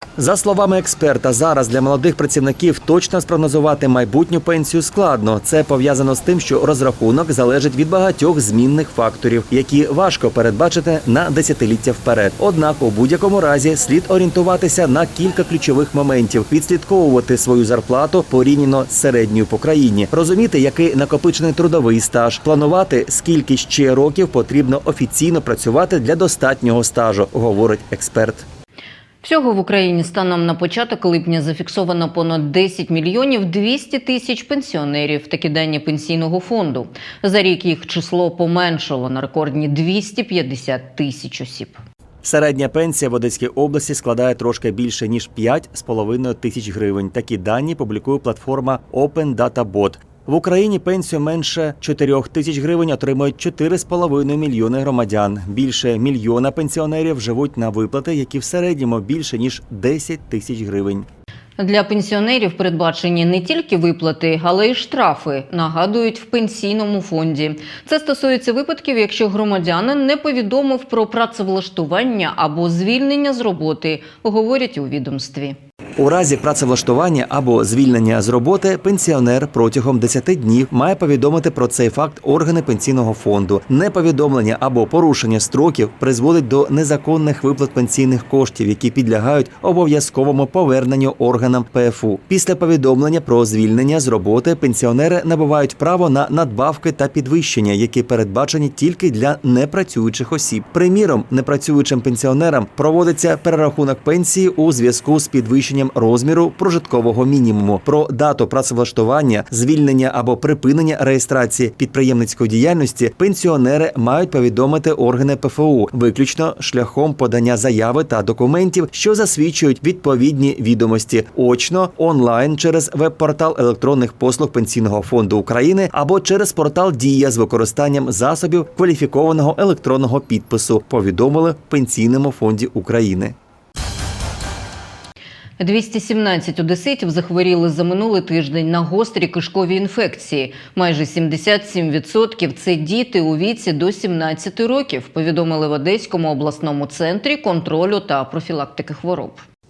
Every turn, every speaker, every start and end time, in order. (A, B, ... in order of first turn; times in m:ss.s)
0:00.2-0:28.4 A
0:29.2-0:41.8 B
0:42.2-1:01.1 A
1:01.6-1:15.6 B
1:16.0-2:13.4 A
2:15.6-2:29.4 B